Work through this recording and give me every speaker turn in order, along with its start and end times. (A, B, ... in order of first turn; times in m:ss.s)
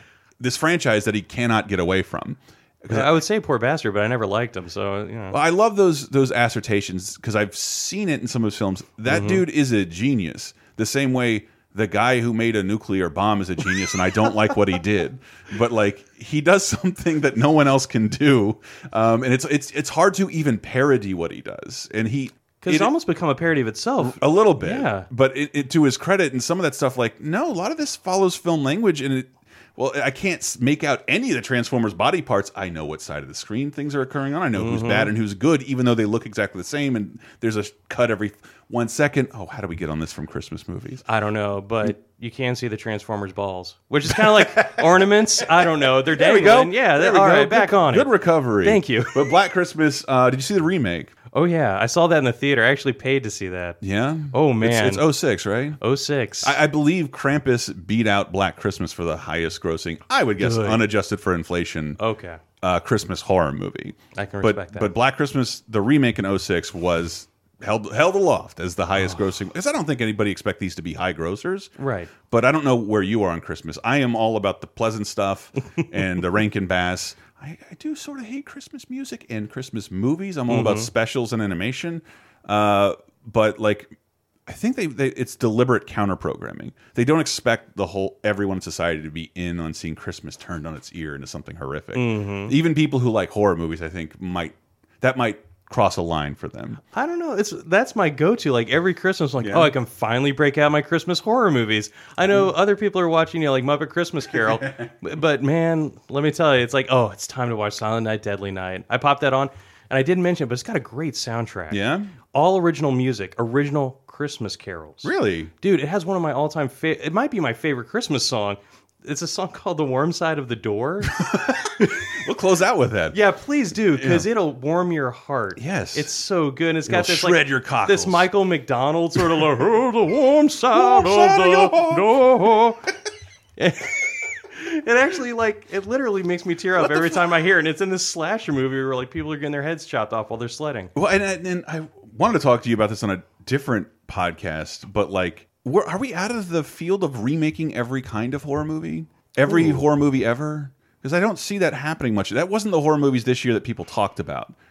0:00.4-0:03.2 A
0:02.9-0:05.4 B
0:05.3-0:22.9 A
0:09.1-0:09.4 B
0:22.6-0:25.1 B
0:24.0-0:41.0 A
0:34.5-0:35.1 B
0:41.0-0:49.4 B
0:44.1-0:44.8 A
0:45.6-0:51.1 A
0:51.3-0:53.8 B
0:53.8-0:55.8 A
0:54.3-0:55.1 B
0:55.8-0:56.6 B
0:56.4-1:02.0 A
1:00.4-1:00.8 B
1:02.0-1:02.4 B
1:02.6-1:11.7 A
1:04.1-1:04.9 B
1:09.0-1:09.2 B
1:11.8-1:12.1 B
1:12.3-1:23.9 A
1:20.5-1:20.9 B
1:24.4-1:36.8 A
1:31.9-1:32.5 B
1:36.9-1:51.8 B
1:39.4-1:39.7 A
1:44.4-1:44.9 A
1:51.7-1:52.1 A
1:52.3-2:01.2 B
1:55.0-1:55.5 A
2:01.1-2:03.2 A
2:03.1-2:12.8 B
2:03.9-2:04.3 A
2:05.6-2:06.1 A
2:06.8-2:08.3 A
2:10.7-2:12.2 A
2:13.6-2:20.9 B
2:20.9-2:34.5 A
2:29.4-2:29.8 B